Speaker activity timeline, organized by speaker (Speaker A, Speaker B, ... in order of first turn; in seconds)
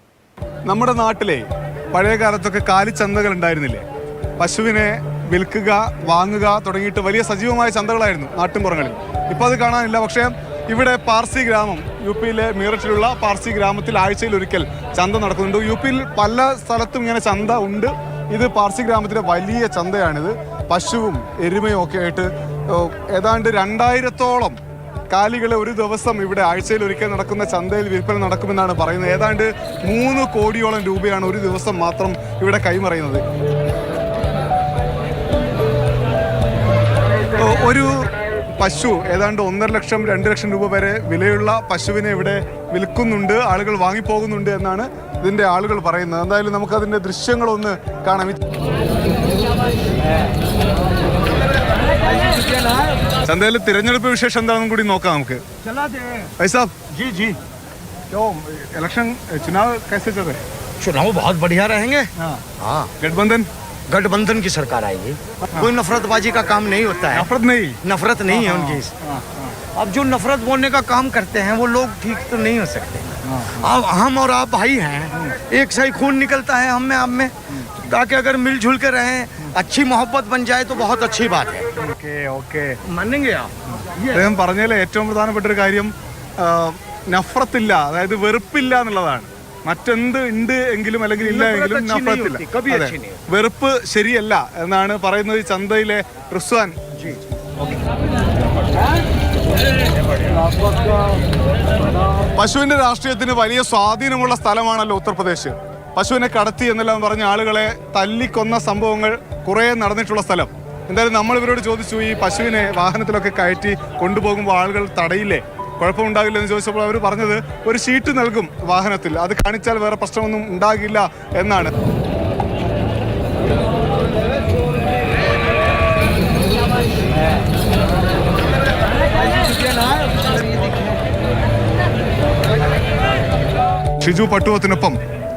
Speaker A: 0.7-3.8, 4.4-24.6, 25.1-33.2, 37.4-48.4, 53.2-55.4, 56.4-56.7, 58.1-60.4, 63.0-63.5, 67.1-69.5, 73.3-73.6, 81.8-82.8, 84.1-96.8, 102.3-121.7, 134.0-135.0
Speaker B: 52.0-52.9, 55.6-56.3, 56.9-57.4, 60.8-62.9, 63.9-67.3, 67.8-68.9, 69.7-81.7, 82.8-84.3, 91.2-93.2, 129.3-130.9